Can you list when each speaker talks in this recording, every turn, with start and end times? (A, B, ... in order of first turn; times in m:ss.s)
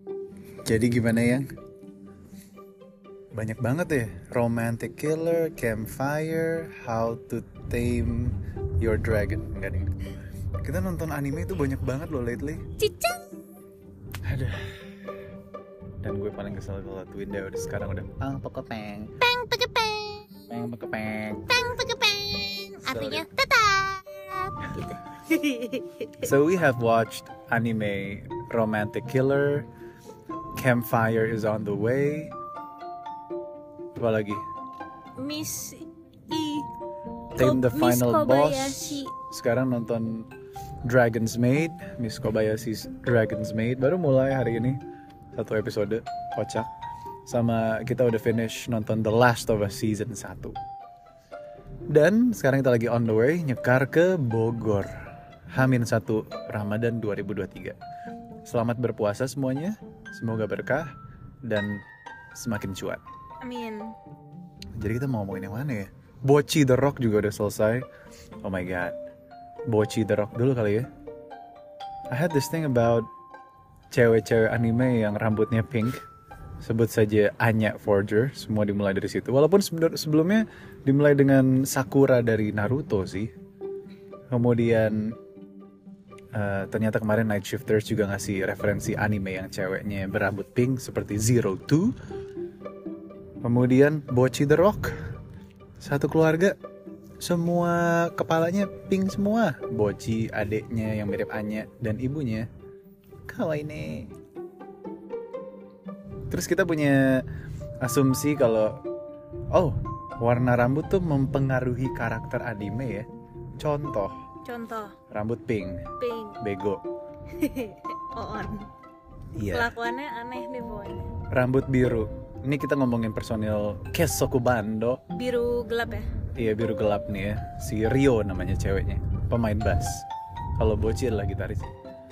0:00.6-0:01.5 A
0:03.3-0:10.1 A
0:10.6-0:12.7 A
0:12.8-0:13.3 B
0:14.2-0:14.7 A
0:16.0-0:19.1 A
0:19.2-0:20.4 B
0:20.5-0:21.5 A
0:21.5-0:26.2 B
0:22.8-0:23.3 A
0:26.2-0:29.7 A
0:30.6-0:32.3 A
0:34.0-0:34.4 A
0:35.2-0:36.7 B
0:37.4-0:40.3 A
0:37.4-0:39.1 B
0:40.9-0:44.8 A
0:45.3-0:46.7 A
0:47.3-0:50.6 A
0:51.9-0:54.9 A
0:55.5-0:57.8 A
0:58.4-1:00.9 A
1:01.5-1:01.8 A
1:02.4-1:03.0 A
1:03.4-1:03.9 B
1:04.8-1:07.9 A
1:08.4-1:09.0 A
1:09.7-1:10.9 A
1:12.1-1:13.1 A
1:13.9-1:16.0 A
1:16.6-1:23.3 A
1:24.3-1:25.0 A
1:26.4-1:31.9 A
1:33.4-1:34.9 A
1:35.8-1:36.6 A
1:37.2-1:42.5 A
1:43.3-1:44.1 A
1:46.3-1:47.3 A
1:47.8-1:48.8 A
1:49.5-1:53.1 A
1:53.6-1:54.1 A
1:54.4-1:55.0 B
1:55.1-1:56.8 A
1:56.0-1:56.4 B
1:57.3-1:58.7 B
1:59.4-1:59.7 A
1:59.5-2:01.1 B
2:01.3-2:05.0 A
2:05.1-2:06.1 B
2:06.4-2:10.1 A
2:10.6-2:11.8 A